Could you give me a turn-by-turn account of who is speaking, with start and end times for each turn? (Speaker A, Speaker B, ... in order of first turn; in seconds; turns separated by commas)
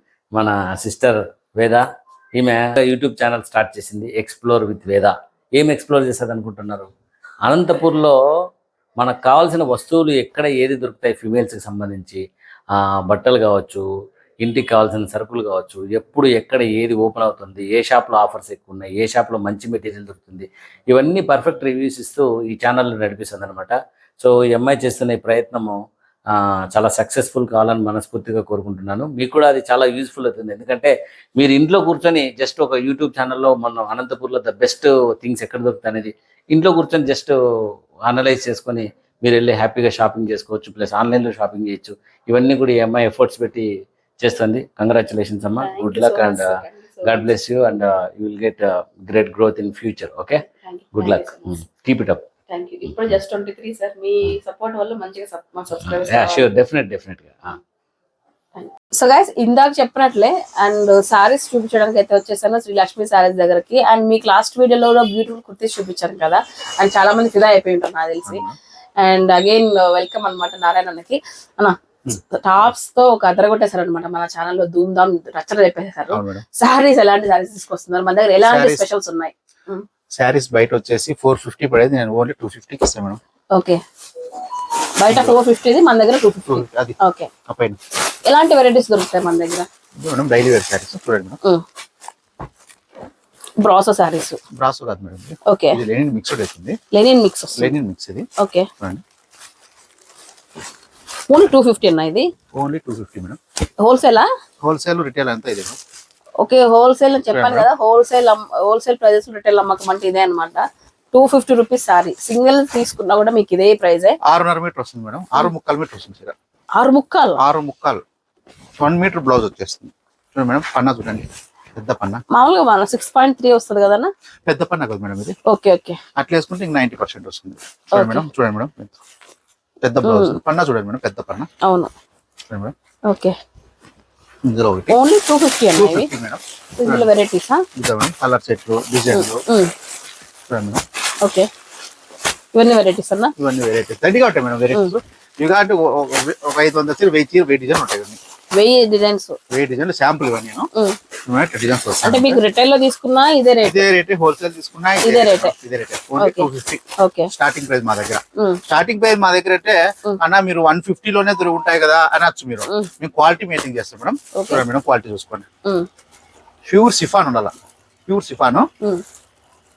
Speaker A: 0.3-1.9, Speaker A: 2.4-6.9, Speaker A: 7.4-8.2, Speaker A: 9.0-13.8, Speaker A: 14.4-25.8, Speaker A: 26.3-50.4, Speaker B: 45.6-47.3, Speaker B: 50.6-51.4, Speaker A: 51.0-52.2, Speaker B: 52.5-56.4, Speaker A: 55.8-57.6, Speaker B: 58.5-68.4, Speaker C: 68.2-68.5, Speaker B: 69.0-79.8, Speaker C: 76.1-76.4, Speaker C: 78.5-78.8, Speaker C: 80.1-83.2, Speaker B: 85.0-87.3, Speaker C: 85.1-85.3, Speaker C: 86.5-87.8, Speaker B: 88.2-89.7, Speaker C: 90.0-91.4, Speaker B: 93.6-94.4, Speaker C: 94.5-96.8, Speaker B: 95.5-95.8, Speaker B: 96.9-97.7, Speaker C: 97.6-98.3, Speaker B: 98.4-98.7, Speaker B: 101.3-102.3, Speaker C: 102.5-103.4, Speaker B: 103.8-104.3, Speaker C: 104.6-105.8, Speaker B: 106.4-114.2, Speaker C: 107.3-107.7, Speaker C: 114.2-116.3, Speaker B: 116.8-117.4, Speaker C: 117.4-118.0, Speaker C: 118.8-122.2, Speaker B: 122.3-124.1, Speaker C: 124.5-125.3, Speaker B: 125.5-126.0, Speaker C: 126.2-129.0, Speaker B: 127.9-128.3, Speaker C: 129.8-131.5, Speaker B: 130.0-130.4, Speaker B: 131.6-131.9, Speaker C: 132.5-132.7, Speaker B: 133.1-133.3, Speaker C: 134.4-135.0, Speaker B: 134.9-136.1, Speaker C: 135.7-137.1, Speaker B: 136.8-137.6, Speaker C: 137.8-139.4, Speaker B: 139.1-139.7, Speaker C: 140.5-140.8, Speaker B: 141.2-141.5, Speaker B: 142.5-143.3, Speaker C: 143.4-148.2, Speaker B: 148.5-149.4, Speaker C: 149.5-150.7, Speaker C: 151.3-152.4, Speaker B: 152.0-153.9, Speaker C: 153.6-165.4, Speaker B: 155.0-155.5, Speaker B: 156.2-157.3, Speaker B: 164.3-164.6, Speaker C: 166.6-167.5, Speaker C: 168.1-168.7